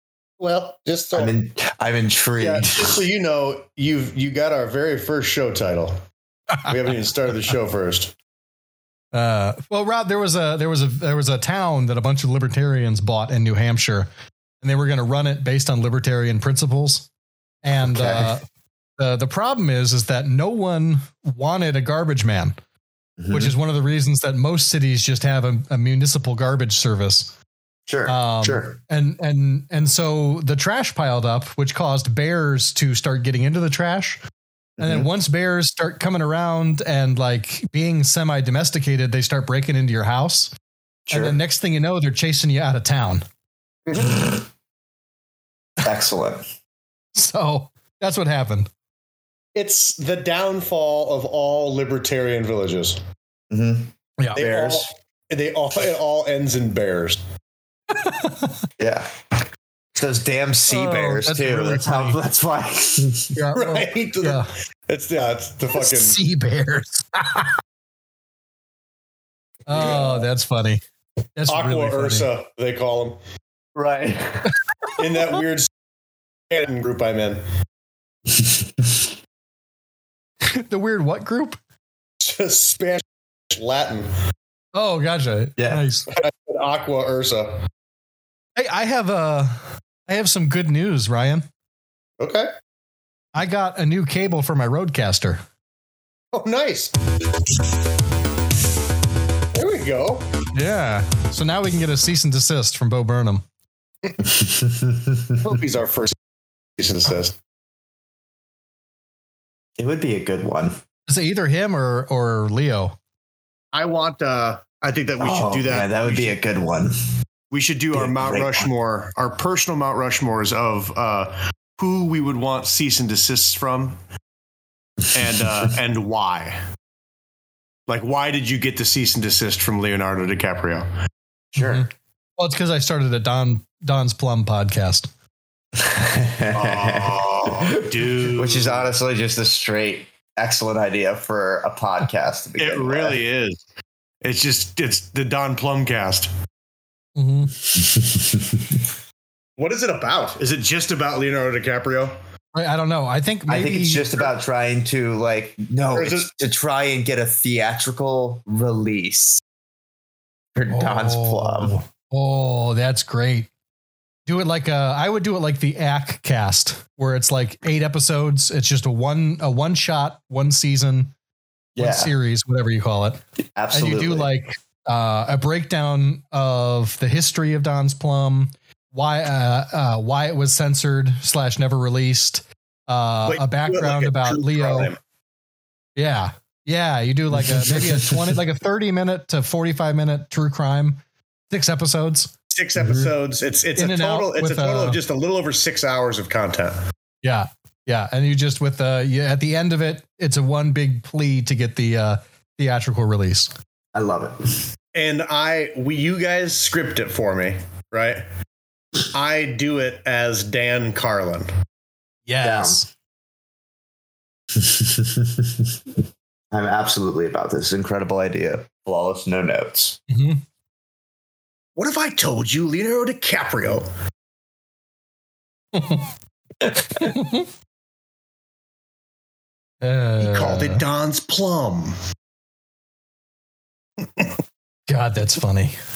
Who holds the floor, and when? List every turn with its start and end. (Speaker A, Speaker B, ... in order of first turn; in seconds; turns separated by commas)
Speaker A: 0.4-1.3, Speaker B: 1.1-3.0, Speaker A: 2.4-6.0, Speaker A: 6.7-8.1, Speaker C: 9.1-14.1, Speaker C: 14.6-17.1, Speaker C: 17.6-18.4, Speaker B: 17.7-18.3, Speaker C: 19.0-22.5, Speaker B: 23.2-23.5, Speaker C: 23.3-27.3, Speaker B: 27.9-28.8, Speaker C: 28.1-34.2, Speaker B: 34.8-35.1, Speaker C: 34.8-40.5, Speaker B: 41.1-41.4, Speaker C: 41.1-43.2, Speaker B: 43.9-44.4, Speaker B: 45.8-46.4, Speaker C: 47.1-48.7, Speaker A: 49.5-53.0, Speaker B: 53.5-54.9, Speaker A: 54.4-57.2, Speaker C: 57.9-58.6, Speaker B: 58.8-59.1, Speaker B: 59.9-63.4, Speaker C: 60.7-62.2, Speaker C: 63.4-64.5, Speaker A: 63.5-66.2, Speaker C: 65.7-67.5, Speaker C: 69.7-70.8, Speaker A: 69.7-70.2, Speaker C: 71.3-72.3, Speaker A: 71.5-73.2, Speaker B: 73.7-74.5, Speaker A: 75.0-75.7, Speaker A: 76.5-77.4, Speaker B: 78.3-79.1, Speaker C: 80.5-81.6, Speaker A: 82.2-84.1, Speaker C: 84.7-86.1, Speaker B: 85.6-85.8, Speaker A: 86.2-87.6, Speaker C: 88.5-91.5, Speaker A: 92.2-92.5, Speaker C: 93.3-95.4, Speaker A: 96.3-96.9, Speaker A: 99.5-100.2, Speaker C: 100.5-103.4, Speaker B: 104.2-105.5, Speaker A: 105.4-106.1, Speaker A: 106.8-107.4, Speaker B: 109.8-110.8, Speaker C: 111.1-113.0, Speaker A: 113.7-116.4, Speaker B: 115.2-116.9, Speaker A: 117.5-124.0, Speaker B: 117.9-118.7, Speaker A: 125.1-126.6, Speaker A: 127.9-130.9, Speaker B: 131.5-131.9, Speaker C: 131.6-135.1, Speaker B: 135.8-143.2, Speaker A: 136.5-138.9, Speaker A: 142.6-143.6, Speaker A: 144.2-146.3, Speaker C: 147.2-147.5, Speaker B: 147.7-148.8, Speaker A: 149.6-152.2, Speaker C: 152.5-154.1, Speaker B: 153.5-159.4, Speaker A: 155.9-156.3, Speaker B: 160.5-161.8, Speaker C: 160.7-163.5, Speaker C: 164.3-171.1, Speaker B: 171.8-172.1, Speaker C: 171.8-173.2, Speaker B: 173.5-174.3, Speaker C: 173.7-184.9, Speaker A: 183.2-185.0, Speaker C: 185.9-192.3, Speaker B: 187.3-188.4, Speaker A: 192.5-196.8, Speaker B: 192.8-193.1, Speaker C: 193.8-195.0, Speaker C: 197.2-203.5, Speaker B: 203.9-204.7, Speaker A: 204.9-208.2, Speaker A: 209.1-211.5, Speaker C: 212.3-212.9, Speaker B: 212.4-212.8, Speaker B: 214.5-215.7, Speaker B: 216.5-220.0, Speaker C: 220.1-220.4, Speaker A: 221.8-223.8, Speaker C: 225.7-226.1, Speaker C: 226.8-227.5, Speaker C: 229.8-230.8, Speaker A: 230.2-231.9, Speaker A: 234.0-234.3, Speaker C: 234.9-235.8